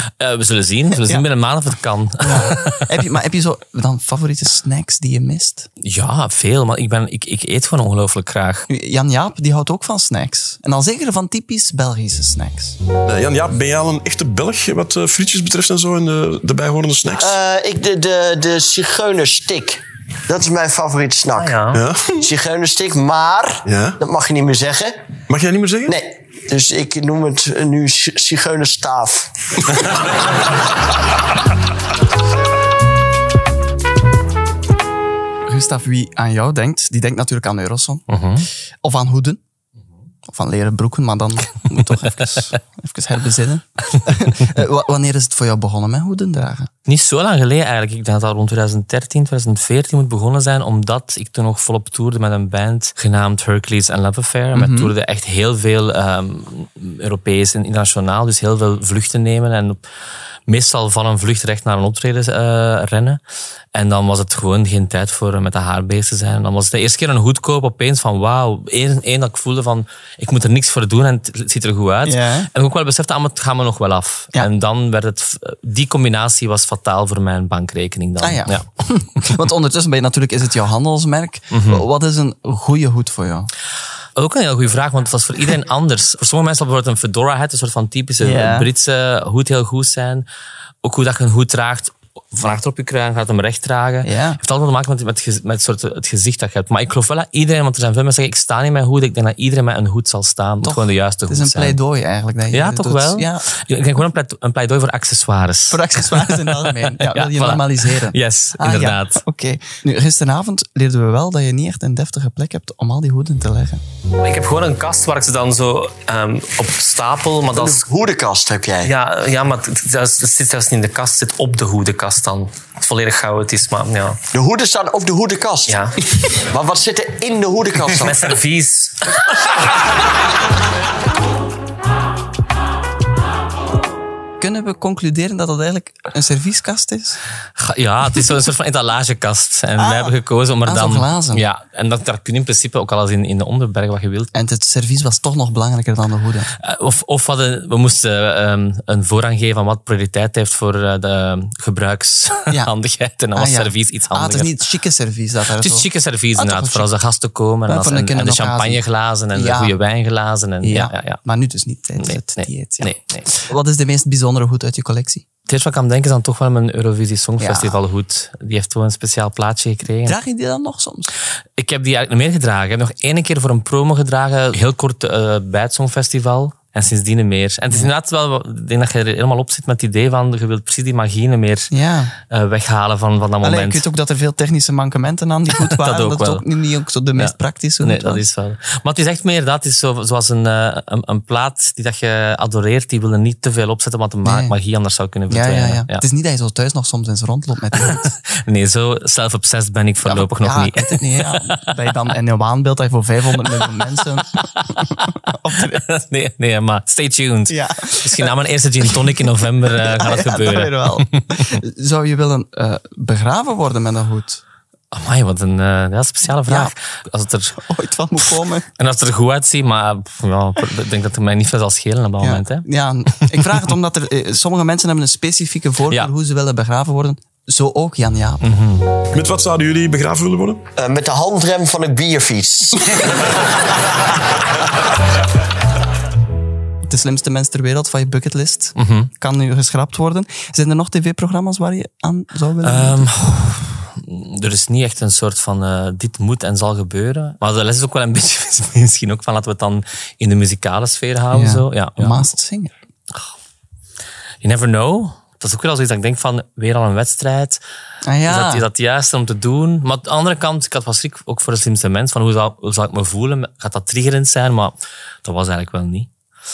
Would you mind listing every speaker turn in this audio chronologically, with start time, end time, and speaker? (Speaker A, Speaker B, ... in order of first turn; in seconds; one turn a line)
Speaker A: 0.2-3.0
Speaker B: 0.9-1.2
Speaker B: 2.2-5.7
Speaker A: 5.8-8.7
Speaker B: 8.7-12.8
Speaker C: 13.1-17.4
Speaker D: 17.1-21.6
Speaker A: 21.4-21.8
Speaker C: 21.7-22.3
Speaker D: 22.2-25.0
Speaker C: 23.6-24.0
Speaker C: 25.3-26.0
Speaker D: 25.9-29.3
Speaker B: 35.5-38.0
Speaker A: 38.1-38.5
Speaker B: 38.8-39.4
Speaker B: 40.3-46.7
Speaker A: 46.9-59.8
Speaker B: 54.5-54.9
Speaker A: 60.5-63.2
Speaker A: 63.7-78.6
Speaker B: 72.0-72.5
Speaker B: 78.2-83.5
Speaker A: 81.5-81.8
Speaker A: 84.2-90.2
Speaker B: 88.2-88.7
Speaker A: 90.8-101.8
Speaker B: 94.0-94.4
Speaker B: 100.6-103.5
Speaker A: 102.5-109.2
Speaker B: 105.7-113.8
Speaker A: 114.2-117.8
Speaker D: 117.5-118.9
Speaker A: 118.8-124.2
Speaker D: 124.3-125.8
Speaker D: 126.5-128.2
Speaker A: 128.0-128.9
Speaker B: 134.4-137.2
Speaker A: 137.6-144.3
Speaker B: 139.8-141.4
Speaker B: 144.3-146.5
Speaker A: 146.6-154.5
Speaker B: 153.3-156.9
Speaker A: 155.5-161.2
Speaker B: 157.7-159.8
Speaker B: 160.6-165.2
Speaker A: 162.0-163.3
Speaker A: 165.5-170.2
Speaker B: 167.4-167.8
Speaker B: 170.0-171.1
Speaker A: 171.6-181.7
Speaker B: 181.7-182.1
Speaker A: 182.3-183.8
Speaker B: 183.4-188.2
Speaker A: 185.6-186.4
Speaker A: 187.2-196.0
Speaker B: 194.2-194.6
Speaker B: 195.3-198.1
Speaker A: 197.7-201.6
Speaker B: 200.0-205.8
Speaker A: 204.6-211.6
Speaker B: 207.5-214.4
Speaker A: 214.9-217.6
Speaker B: 216.5-216.7
Speaker B: 217.6-218.7
Speaker A: 218.3-222.7
Speaker B: 222.2-228.4
Speaker A: 228.4-228.9
Speaker C: 229.1-230.6
Speaker D: 230.8-233.2
Speaker B: 236.8-243.1
Speaker A: 238.8-239.1
Speaker A: 242.6-252.2
Speaker B: 251.3-252.7
Speaker A: 254.4-257.6
Speaker B: 258.0-258.7
Speaker A: 258.2-266.1